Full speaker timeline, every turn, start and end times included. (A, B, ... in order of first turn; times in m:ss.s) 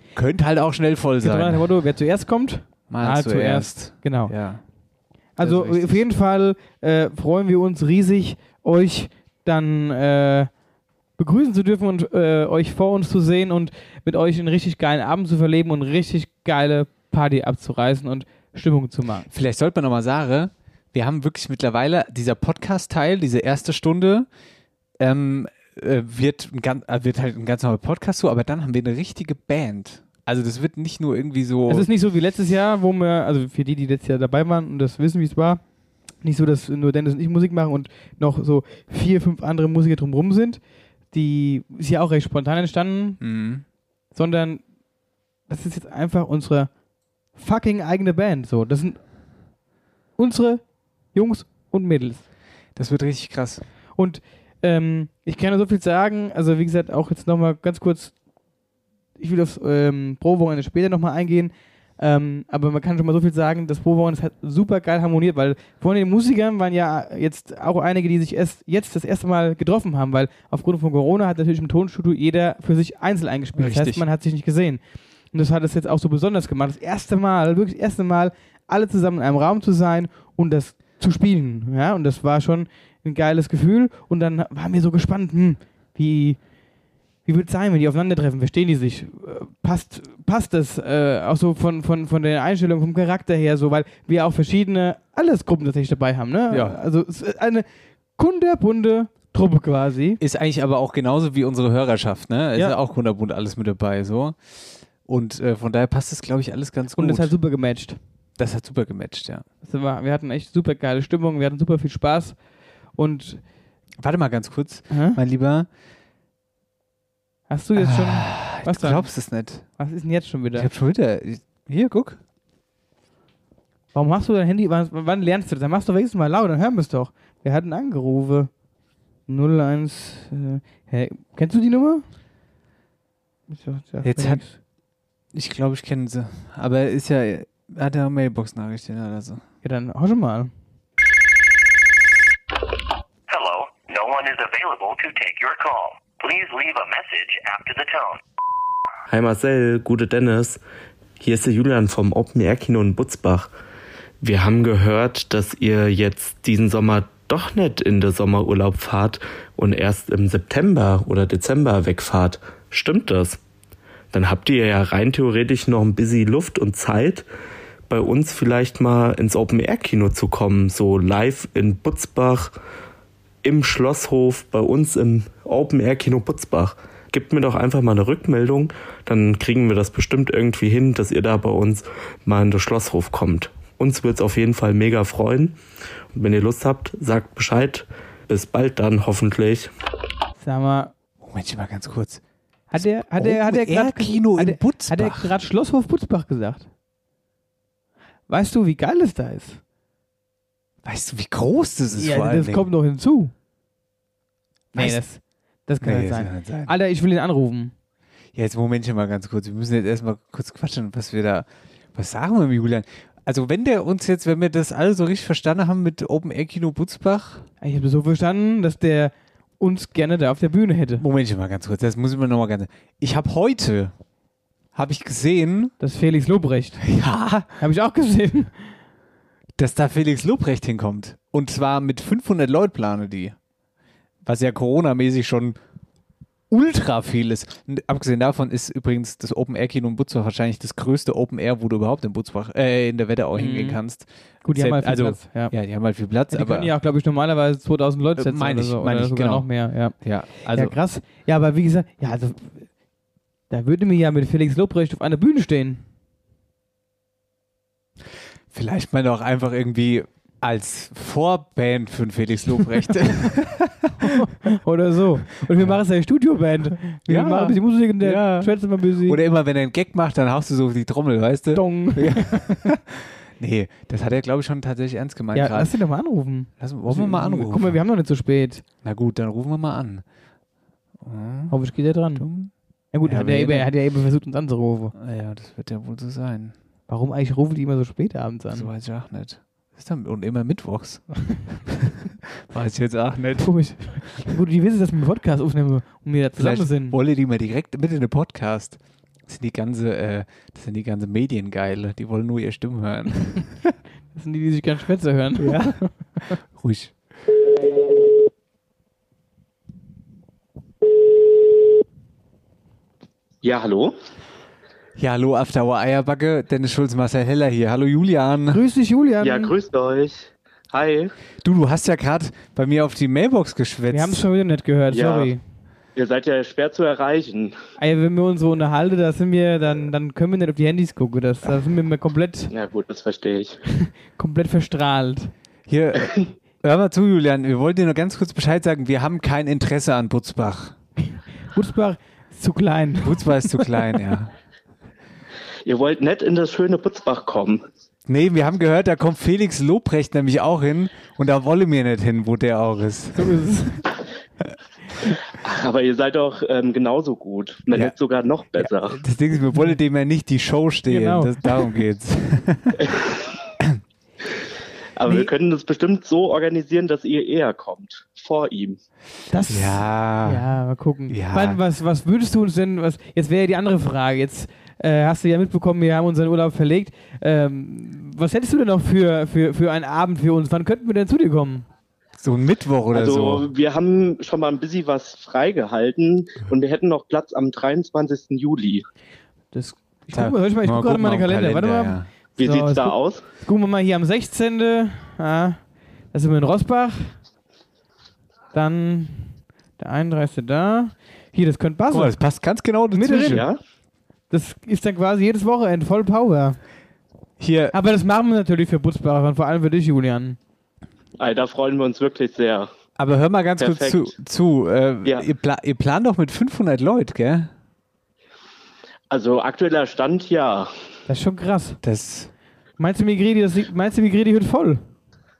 0:00.2-0:01.6 A
0:01.2-0:04.3 B
0:02.9-0:04.6 A
0:05.4-0:10.5 B
0:05.4-0:06.0 A
0:11.2-0:19.3 B
0:19.3-0:24.3 A
0:25.0-0:31.9 A
0:31.7-0:35.6 B
0:36.2-0:40.6 B
0:41.1-0:43.2 B
0:43.2-0:43.6 A
0:44.1-0:44.6 B
0:45.5-0:46.7 B
0:47.4-0:49.0 B
0:50.2-0:52.2 B
0:52.8-0:53.6 A
0:54.0-0:58.1 B
0:59.2-1:14.8 B
1:13.6-1:14.0 A
1:15.3-1:26.4 B
1:27.3-1:37.6 B
1:36.5-1:36.8 A
1:38.2-1:40.2 B
1:40.2-1:44.4 A
1:45.0-1:47.3 A
1:47.0-1:48.0 B
1:48.4-1:49.4 A
1:49.6-1:52.4 B
1:53.0-1:53.4 B
1:54.0-1:55.7 A
1:54.9-1:55.2 B
1:57.5-1:59.1 B
1:57.8-1:59.7 A
1:59.8-2:00.7 B
2:00.6-2:02.2 A
2:03.9-2:08.5 B
2:09.3-2:12.0 B
2:13.5-2:14.6 B
2:14.0-2:14.4 A
2:15.3-2:19.4 A
2:19.6-2:20.5 B
2:23.3-2:28.2 C
2:29.1-2:30.6 D
2:31.2-2:33.5 D
2:34.2-2:43.4 D
2:44.1-2:47.3 D
2:47.9-2:52.5 D
2:53.4-3:05.6 D
3:06.1-3:09.7 D
3:10.4-3:10.9 B
3:11.2-3:12.2 A
3:12.7-3:16.7 B
3:12.8-3:15.3 A
3:18.3-3:19.6 B
3:20.8-3:22.7 A
3:22.0-3:23.3 B
3:24.7-3:27.7 B
3:24.8-3:25.0 A
3:25.8-3:26.7 A
3:28.4-3:37.5 A
3:37.6-3:41.0 B
3:41.0-3:43.9 A
3:44.8-3:45.7 A
3:45.8-3:46.8 B
3:46.8-3:47.5 A
3:47.6-3:48.5 B
3:49.6-3:53.4 A
3:54.2-3:55.6 A
3:56.5-4:06.7 A
4:03.3-4:03.8 B
4:04.4-4:05.5 B
4:06.3-4:12.7 B
4:08.2-4:10.8 A
4:13.5-4:15.8 B
4:18.5-4:24.3 A
4:24.0-4:29.2 B
4:27.1-4:35.7 A
4:31.5-4:32.8 B
4:35.3-4:38.6 B
4:36.6-4:37.8 A
4:38.8-4:40.0 A
4:41.0-4:41.6 A
4:41.5-4:42.2 B
4:42.1-4:42.5 A
4:42.9-4:44.9 B
4:43.0-4:43.7 A
4:45.0-4:46.5 A
4:46.9-4:48.7 B
4:48.5-4:51.1 A
4:51.7-4:54.3 A
4:53.4-4:57.0 B
4:56.4-5:03.7 A
5:04.1-5:05.9 B
5:05.4-5:05.8 A
5:06.4-5:07.0 A
5:13.4-5:13.9 E
5:15.0-5:18.6 A
5:18.5-5:19.5 B
5:19.2-5:21.1 E
5:21.4-5:24.2 A
5:23.9-5:25.4 B
5:24.9-5:25.3 E
5:26.0-5:27.6 E
5:27.8-5:32.5 B
5:32.5-5:33.6 E
5:33.8-5:35.3 B
5:35.7-5:40.8 A
5:41.5-5:43.7 B
5:43.0-5:44.3 A
5:45.7-5:47.6 E
5:48.1-5:53.3 A
5:53.2-5:53.8 B
5:55.4-5:59.0 E
5:58.6-6:02.8 A
6:00.9-6:01.7 B
6:02.8-6:03.2 E
6:05.0-6:08.8 E
6:09.3-6:21.7 B
6:09.5-6:10.5 A
6:11.1-6:11.6 A
6:22.2-6:23.5 A
6:22.9-6:28.8 E
6:29.5-6:35.6 B
6:30.1-6:32.1 A
6:32.4-6:33.2 E
6:36.1-6:37.1 B
6:38.5-6:42.2 B
6:41.9-6:43.5 A
6:42.9-6:43.4 B
6:43.3-6:43.6 E
6:44.3-6:46.6 B
6:47.4-6:47.8 A
6:47.7-6:50.4 B
6:51.2-6:52.7 E
6:53.0-6:57.5 A
6:53.6-6:54.1 E
6:59.1-7:00.7 E
7:01.1-7:01.8 B
7:01.8-7:02.3 A
7:02.8-7:04.8 B